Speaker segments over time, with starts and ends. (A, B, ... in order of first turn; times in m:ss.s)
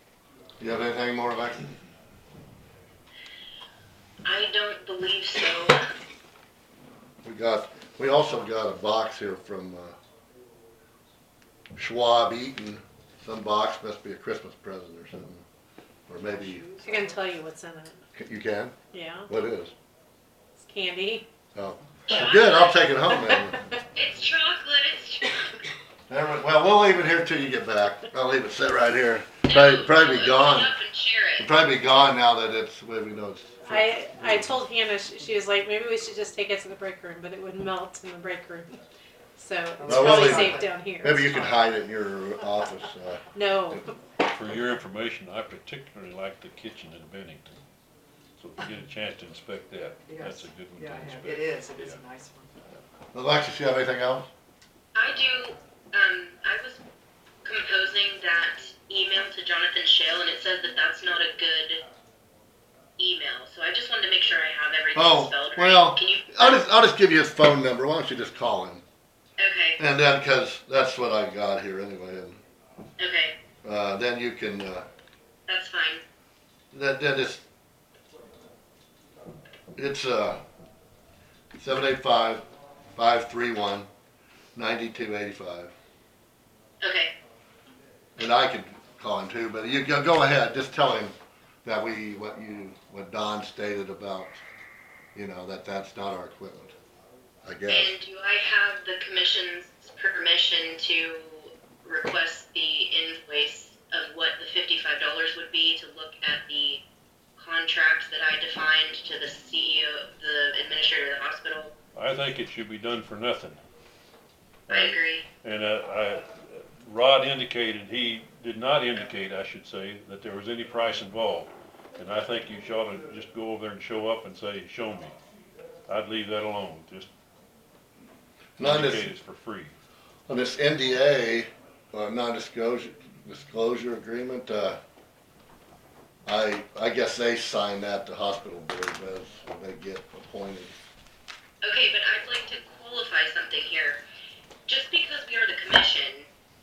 0:00.6-0:01.7 A
0:04.2-0:05.9 B
0:07.2-0:10.0 A
0:11.7-0:15.4 A
0:16.1-0:16.6 A
0:16.2-0:17.3 C
0:16.8-0:18.0 D
0:18.1-0:18.7 A
0:18.9-0:19.3 D
0:19.3-0:19.7 A
0:20.6-0:21.2 D
0:21.5-0:23.6 A
0:22.0-0:22.9 B
0:23.9-0:25.6 B
0:26.1-0:30.7 A
0:29.4-0:31.5 B
0:31.4-0:34.5 A
0:33.6-0:38.7 D
0:39.4-0:41.5 D
0:39.8-0:40.8 C
0:39.8-0:43.8 A
0:43.3-0:44.1 D
0:44.2-0:47.6 E
0:48.4-0:52.0 E
0:50.0-0:52.6 C
0:53.1-0:54.3 A
0:54.9-0:56.8 B
0:57.4-1:01.8 B
1:03.0-1:06.7 B
1:04.9-1:08.8 A
1:09.4-1:09.8 B
1:09.8-1:12.4 A
1:13.0-1:13.4 B
1:13.6-1:14.8 A
1:15.5-1:16.0 B
1:16.7-1:17.4 A
1:19.8-1:20.4 A
1:21.6-1:22.4 A
1:23.0-1:23.9 A
1:24.6-1:25.7 A
1:26.8-1:27.1 B
1:28.2-1:34.4 A
1:35.1-1:36.7 A
1:37.4-1:37.9 A
1:37.7-1:46.8 B
1:47.4-1:51.7 B
1:51.9-1:53.6 E
1:54.7-2:05.2 E
1:54.7-1:55.2 B
2:05.9-2:07.1 E
2:08.6-2:09.1 A
2:08.6-2:09.7 E
2:10.3-2:14.8 A
2:16.2-2:20.8 A
2:21.6-2:24.0 B
2:24.6-2:26.3 B